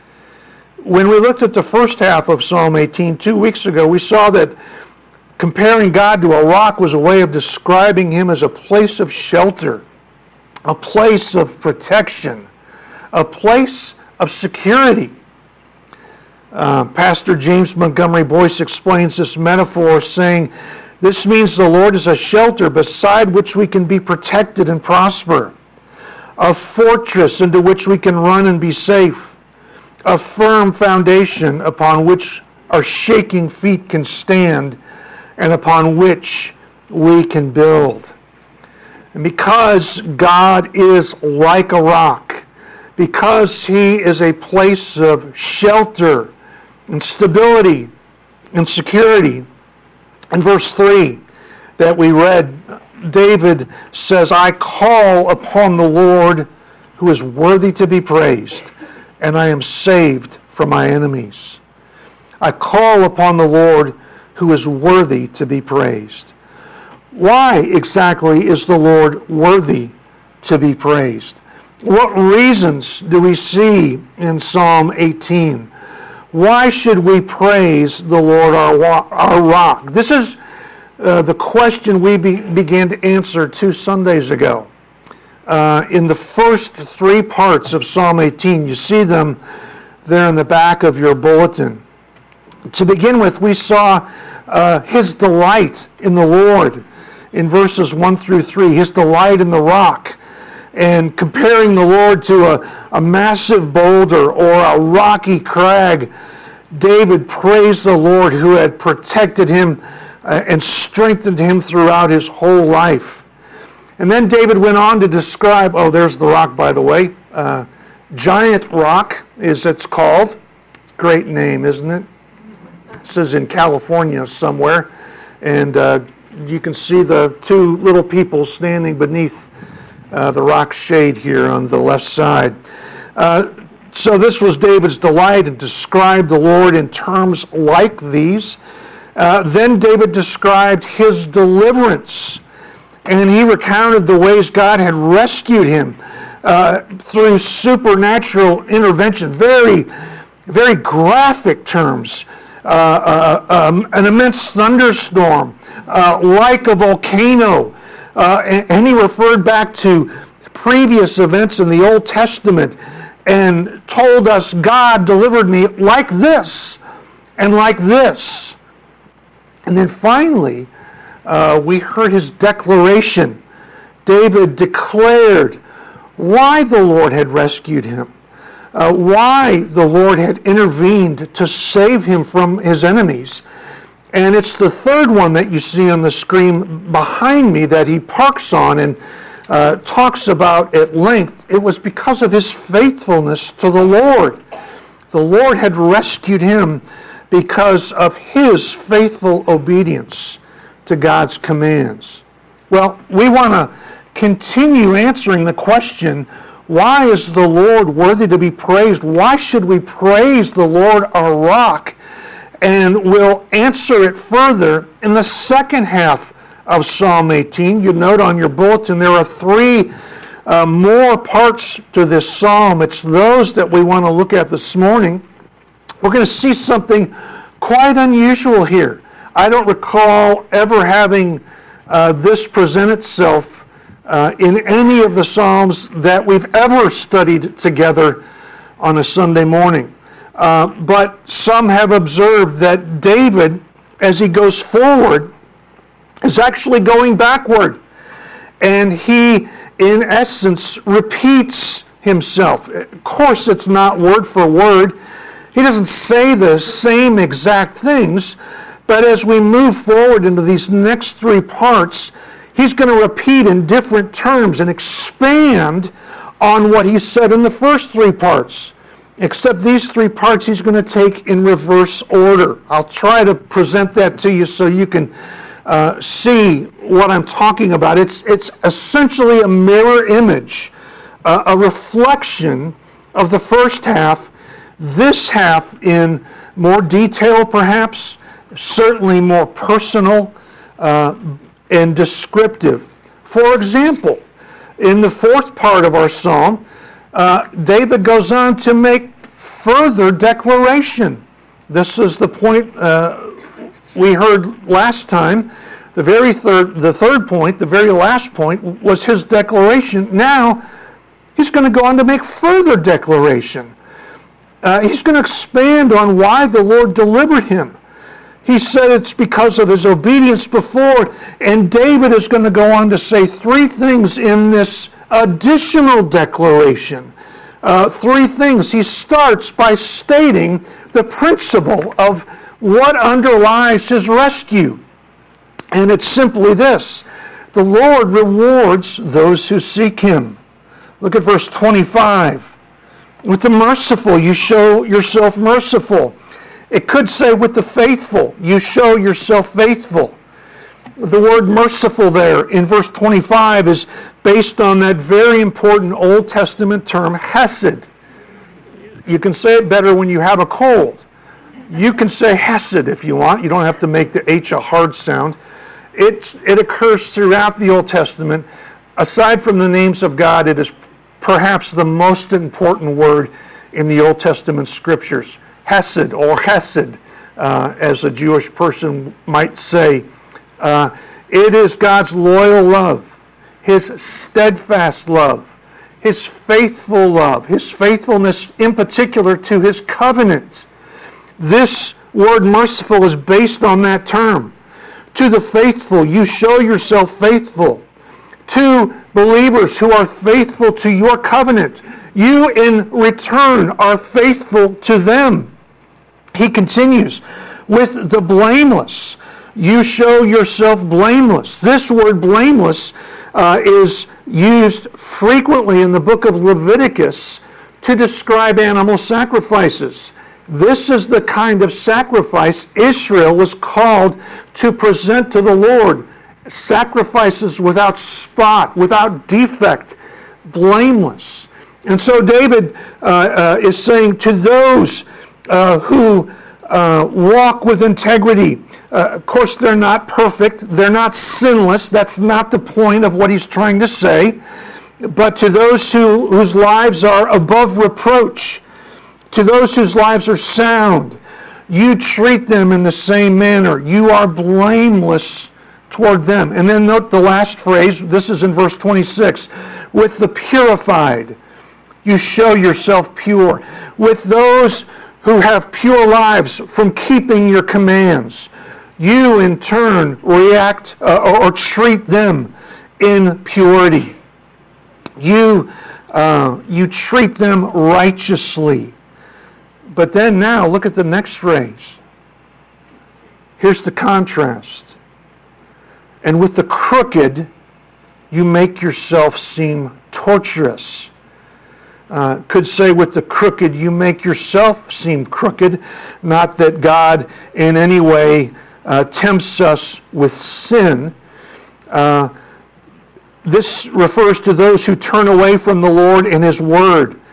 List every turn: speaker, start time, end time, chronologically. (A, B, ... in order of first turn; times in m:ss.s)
0:00.8-0:04.6 A
0:05.4-0:09.8 A
0:10.6-0:12.5 A
0:13.1-0:15.1 A
0:16.5-0:25.5 A
0:26.4-0:29.4 A
0:30.0-0:34.8 A
0:35.4-0:38.1 A
0:39.1-0:42.4 A
0:43.0-0:46.3 A
0:46.9-0:47.9 A
0:48.5-0:49.4 A
0:50.3-0:51.2 A
0:51.8-1:01.6 A
1:02.4-1:06.3 A
1:07.1-1:15.7 A
1:16.3-1:20.4 A
1:21.0-1:24.7 A
1:25.4-1:29.4 A
1:30.0-1:31.8 A
1:32.7-1:36.8 A
1:37.3-1:40.2 A
1:40.7-1:46.1 A
1:46.7-1:53.2 A
1:54.0-2:00.4 A
2:00.9-2:02.1 A
2:03.0-2:04.9 A
2:05.4-2:09.5 A
2:10.1-2:12.5 A
2:13.2-2:18.6 A
2:19.1-2:22.4 A
2:23.0-2:29.9 A
2:30.4-2:46.8 A
2:47.4-2:48.6 A
2:49.7-2:50.7 A
2:51.2-2:53.4 A
2:54.0-2:55.6 A
2:56.2-2:58.1 A
2:58.7-3:03.4 A
3:04.1-3:14.4 A
3:15.1-3:32.0 A
3:32.6-3:39.9 A
3:40.4-3:45.2 A
3:46.0-3:58.2 A
3:58.8-4:05.3 A
4:06.2-4:07.8 A
4:08.6-4:14.9 A
4:15.5-4:35.1 A
4:35.6-4:40.7 A
4:41.2-4:54.2 A
4:54.8-5:03.3 A
5:03.9-5:10.6 A
5:11.4-5:13.7 A
5:14.6-5:17.7 A
5:18.4-5:27.1 A
5:27.6-5:34.8 A
5:35.7-5:40.4 A
5:41.0-5:42.6 A
5:43.2-5:46.2 A
5:46.7-5:50.2 A
5:51.0-5:57.9 A
5:59.0-6:01.0 A
6:01.7-6:05.4 A
6:05.9-6:20.0 A
6:20.6-6:30.7 A
6:31.4-6:34.5 A
6:35.1-6:37.8 A
6:38.5-6:45.5 A
6:46.3-7:24.4 A
7:25.0-7:28.6 A
7:29.3-7:41.4 A
7:42.0-7:54.2 A
7:55.2-7:59.0 A
7:59.9-8:02.0 A
8:03.6-8:05.0 A
8:06.2-8:07.5 A
8:08.3-8:11.1 A
8:12.1-8:21.1 A
8:21.9-8:22.3 A
8:23.4-8:27.2 A